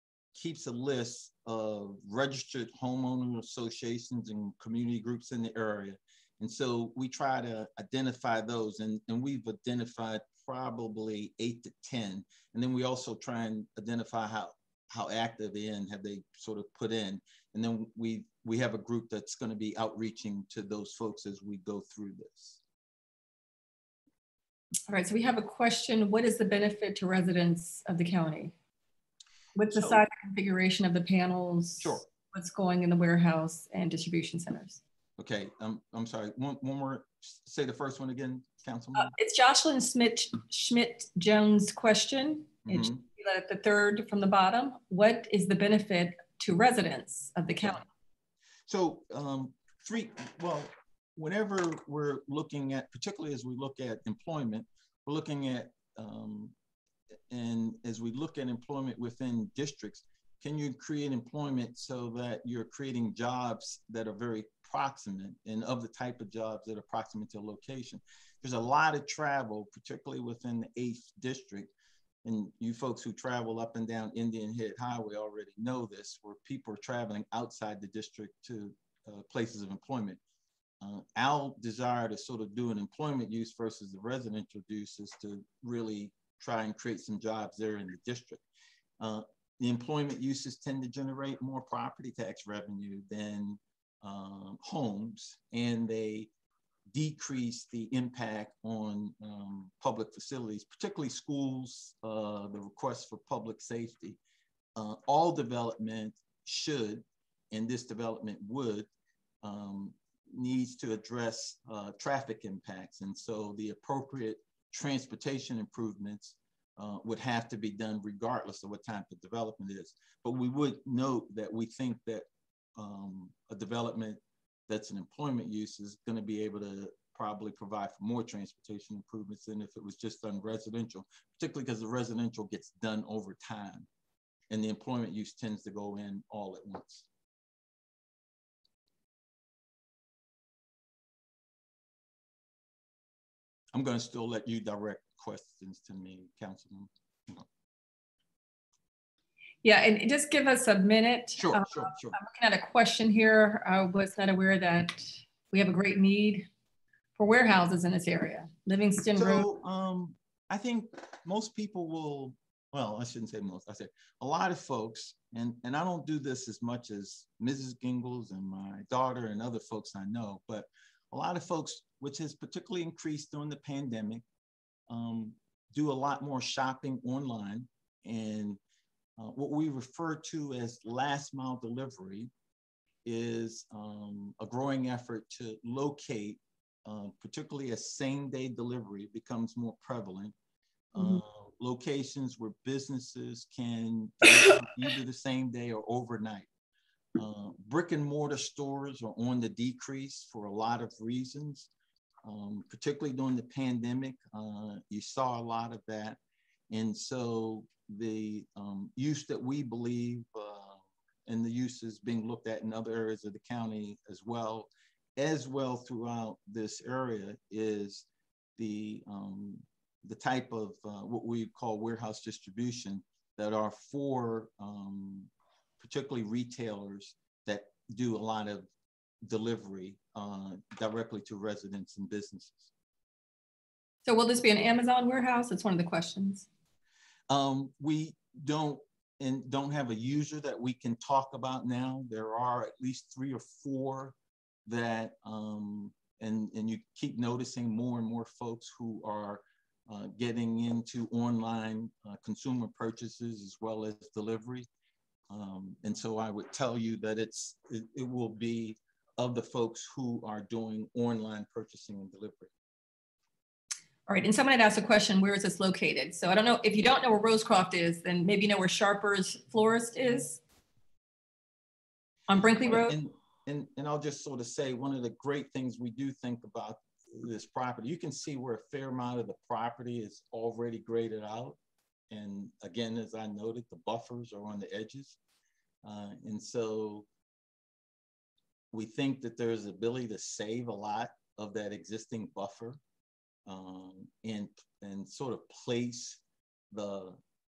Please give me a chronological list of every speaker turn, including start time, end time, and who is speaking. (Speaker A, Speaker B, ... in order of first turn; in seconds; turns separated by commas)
Speaker A: 0.3-22.6, Speaker B: 24.9-28.5, Speaker B: 29.6-34.8, Speaker A: 29.7-30.0, Speaker A: 31.8-32.1, Speaker A: 35.2-39.1, Speaker B: 39.0-47.9, Speaker A: 42.7-43.0, Speaker A: 48.7-56.5, Speaker A: 57.3-71.7, Speaker A: 72.2-80.2, Speaker A: 80.8-88.4, Speaker A: 89.0-96.3, Speaker A: 96.9-104.2, Speaker A: 104.8-108.9, Speaker A: 109.4-122.3, Speaker A: 122.8-133.9, Speaker A: 134.5-137.1, Speaker A: 143.7-147.5, Speaker B: 149.6-156.5, Speaker A: 151.4-152.2, Speaker B: 157.2-159.5, Speaker A: 159.2-174.2, Speaker A: 174.9-178.6, Speaker A: 179.2-182.3, Speaker A: 183.1-190.3, Speaker A: 190.9-196.5, Speaker B: 191.0-191.2, Speaker A: 197.2-201.7, Speaker A: 202.2-206.2, Speaker A: 206.7-218.1, Speaker A: 218.6-228.7, Speaker A: 229.2-232.7, Speaker B: 234.1-236.5, Speaker A: 237.3-244.1, Speaker A: 244.7-254.7, Speaker A: 255.3-262.5, Speaker B: 264.1-270.4, Speaker B: 272.3-272.9, Speaker A: 272.7-281.6, Speaker A: 282.1-285.2, Speaker A: 285.8-287.1, Speaker A: 288.7-292.8, Speaker A: 293.5-297.2